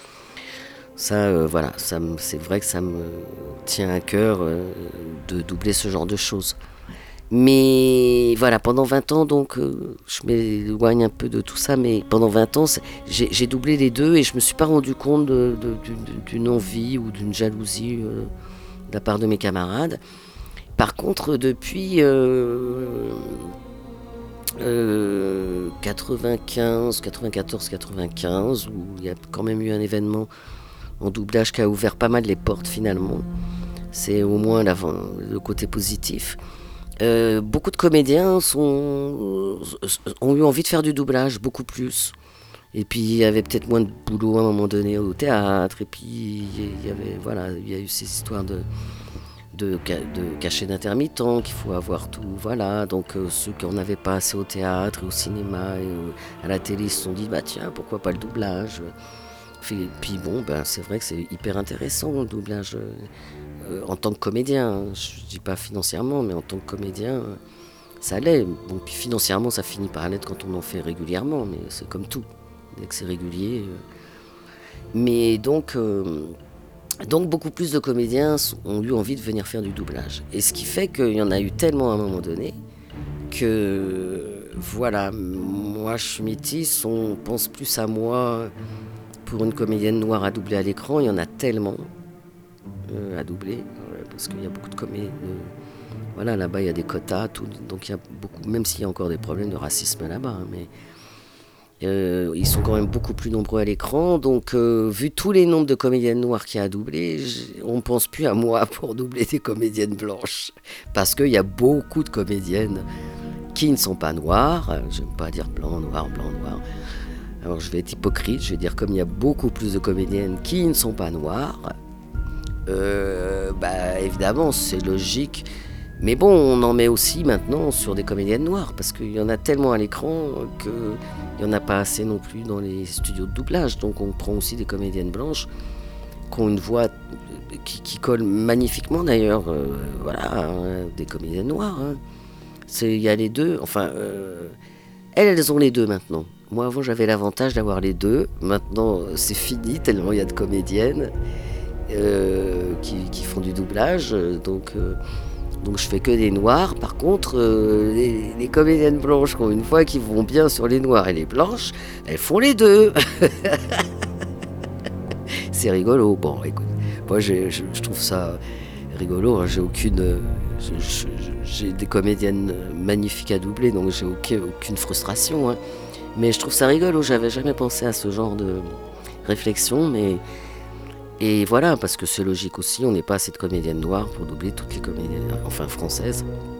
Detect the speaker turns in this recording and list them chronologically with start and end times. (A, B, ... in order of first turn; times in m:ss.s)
0:01.0-0:06.6 A
0:07.3-0:18.3 A
0:18.9-0:20.0 A
0:20.8-0:23.5 A
0:24.6-0:30.3 A
0:31.0-0:33.2 A
0:33.9-0:36.4 A
0:37.0-0:42.1 A
0:42.7-0:48.6 A
0:49.5-0:58.9 A
0:59.6-1:03.1 A
1:03.6-1:07.4 A
1:08.0-1:13.8 A
1:14.9-1:16.4 A
1:17.0-1:22.6 A
1:23.3-1:28.5 A
1:29.2-1:31.9 A
1:32.9-1:35.5 A
1:36.1-1:40.7 A
1:41.8-1:52.8 A
1:53.5-1:56.6 A
1:57.4-2:01.7 A
2:02.6-2:05.5 A
2:06.0-2:15.5 A
2:16.3-2:22.0 A
2:22.7-2:24.6 A
2:25.1-2:31.1 A
2:31.9-2:35.0 A
2:35.6-2:43.8 A
2:45.5-2:48.4 A
2:48.9-2:55.6 A
2:56.1-3:00.2 A
3:01.2-3:06.3 A